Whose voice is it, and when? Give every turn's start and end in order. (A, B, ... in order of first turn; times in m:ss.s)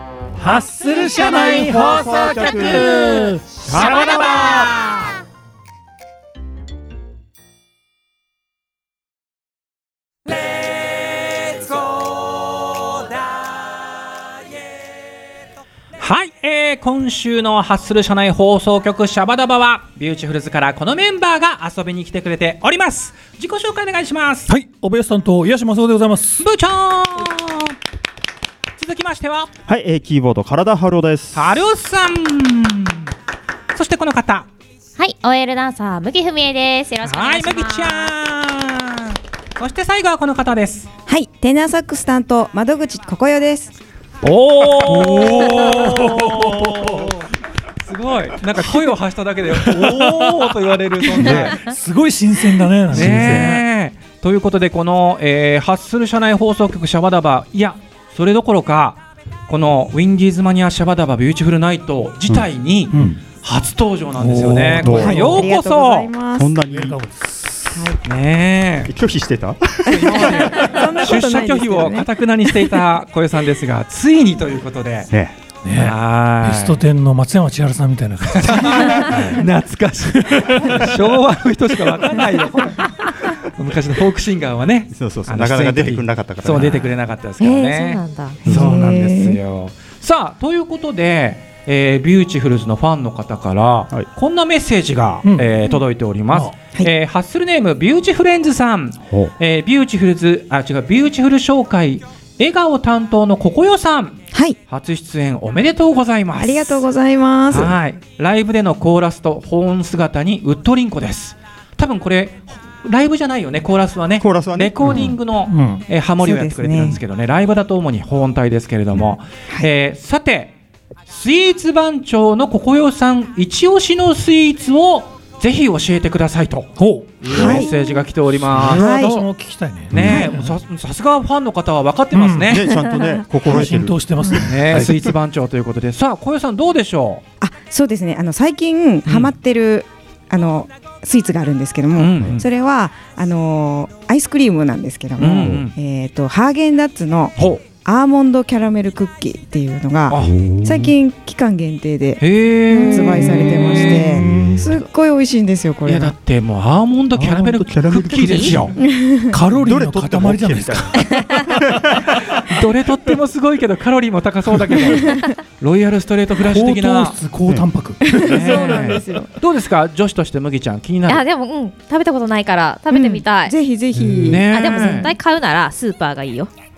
0:00.4-0:04.2 A
0:01.2-0:03.0 B
0:01.2-0:05.1 C
0:03.6-0:04.8 B
0:16.0-0:24.5 C
0:24.5-0:26.4 A
0:26.4-0:27.7 C
0:28.8-0:29.5 C
0:29.6-0:31.5 B
0:31.3-0:33.1 C
0:33.7-0:34.5 C
0:35.0-0:38.1 D
0:37.0-0:40.9 C
0:41.1-0:43.7 E
0:44.2-0:47.3 C
0:44.8-0:47.1 A
0:47.8-0:51.6 C
0:49.6-0:53.6 A
0:51.1-0:51.6 B
0:52.9-0:53.5 B
0:52.9-1:06.1 C
1:02.3-1:03.2 B
1:04.2-1:05.5 A
1:04.8-1:05.4 B
1:04.8-1:06.8 E
1:06.3-1:07.0 B
1:06.7-1:07.7 A
1:07.7-1:08.0 E
1:08.0-1:08.9 C
1:08.8-1:10.5 B
1:09.8-1:15.1 C
1:09.9-1:12.1 E
1:15.1-1:15.4 B
1:15.6-1:19.2 A
1:15.7-1:16.8 C
1:18.2-1:46.8 C
1:19.1-1:19.4 B
1:20.3-1:21.0 A
1:24.9-1:26.9 B
1:27.4-1:28.4 D
1:28.4-1:28.9 B
1:28.4-1:29.4 E
1:35.2-1:35.6 A
1:36.3-1:36.6 A
1:46.4-1:47.7 E
1:47.5-2:00.5 C
1:54.2-1:55.1 B
1:54.8-1:55.8 A
1:56.2-1:57.0 E
2:01.1-2:09.2 C
2:06.8-2:07.7 A
2:07.2-2:07.7 E
2:08.4-2:10.5 A
2:08.7-2:09.2 E
2:09.9-2:10.3 B
2:09.9-2:12.6 C
2:09.9-2:10.4 E
2:12.1-2:12.6 A
2:12.5-2:14.0 B
2:13.4-2:15.1 A
2:14.3-2:17.2 C
2:17.4-2:36.1 E
2:19.0-2:19.3 C
2:21.9-2:22.4 C
2:25.2-2:25.7 C
2:25.2-2:25.6 B
2:27.4-2:27.6 C
2:30.1-2:30.3 C
2:30.1-2:30.9 B
2:32.2-2:34.8 C
2:33.5-2:34.8 B
2:35.8-2:38.7 C
2:37.1-2:38.8 B
2:38.2-2:38.5 D
2:38.8-2:39.4 E
2:39.3-2:41.6 A
2:39.6-2:42.4 B
2:42.1-2:47.2 C
2:46.4-2:49.0 A
2:48.0-2:49.3 E
2:48.2-2:51.2 C
2:51.1-2:53.5 D
2:52.9-2:55.1 E
2:54.2-2:55.1 C
2:54.4-2:56.5 D